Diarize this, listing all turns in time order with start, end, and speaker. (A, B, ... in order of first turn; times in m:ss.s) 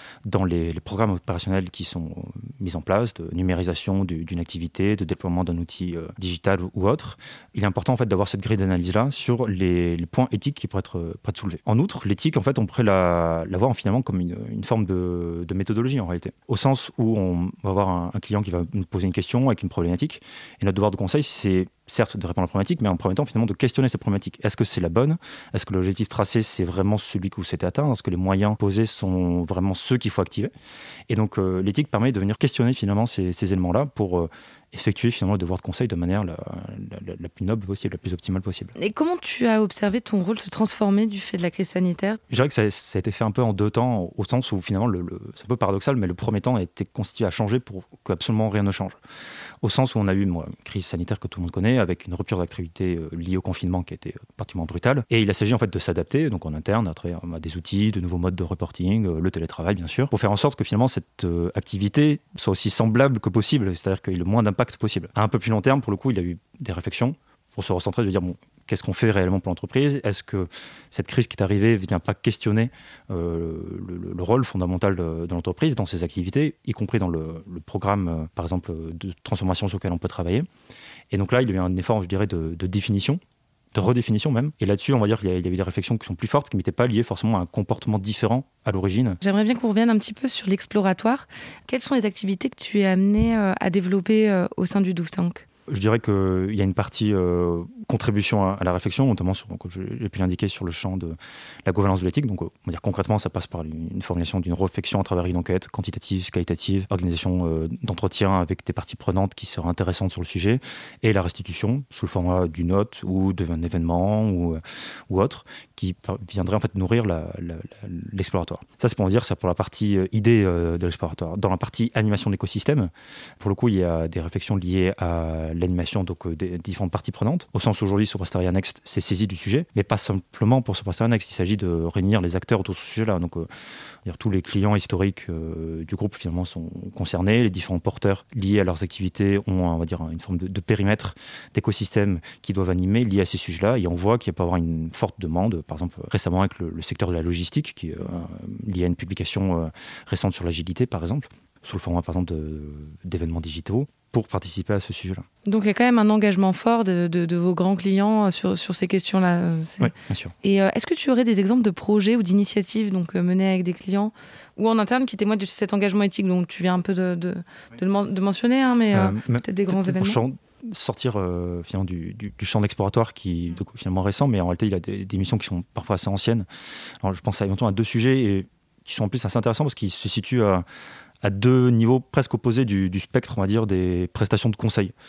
0:00.2-0:30.5 A
0:31.1-0:38.7 A
0:38.8-0:42.2 B
0:42.3-0:49.0 A
0:49.6-1:20.5 A
1:21.1-1:23.2 A
1:23.7-1:29.2 A
1:29.2-1:35.4 B
1:35.7-2:13.5 A
2:14.0-2:35.2 A
2:35.4-2:39.9 B
2:39.8-2:40.3 A
2:40.4-2:50.2 B
2:48.9-2:56.4 A
2:57.0-3:00.6 A
3:01.2-3:04.9 A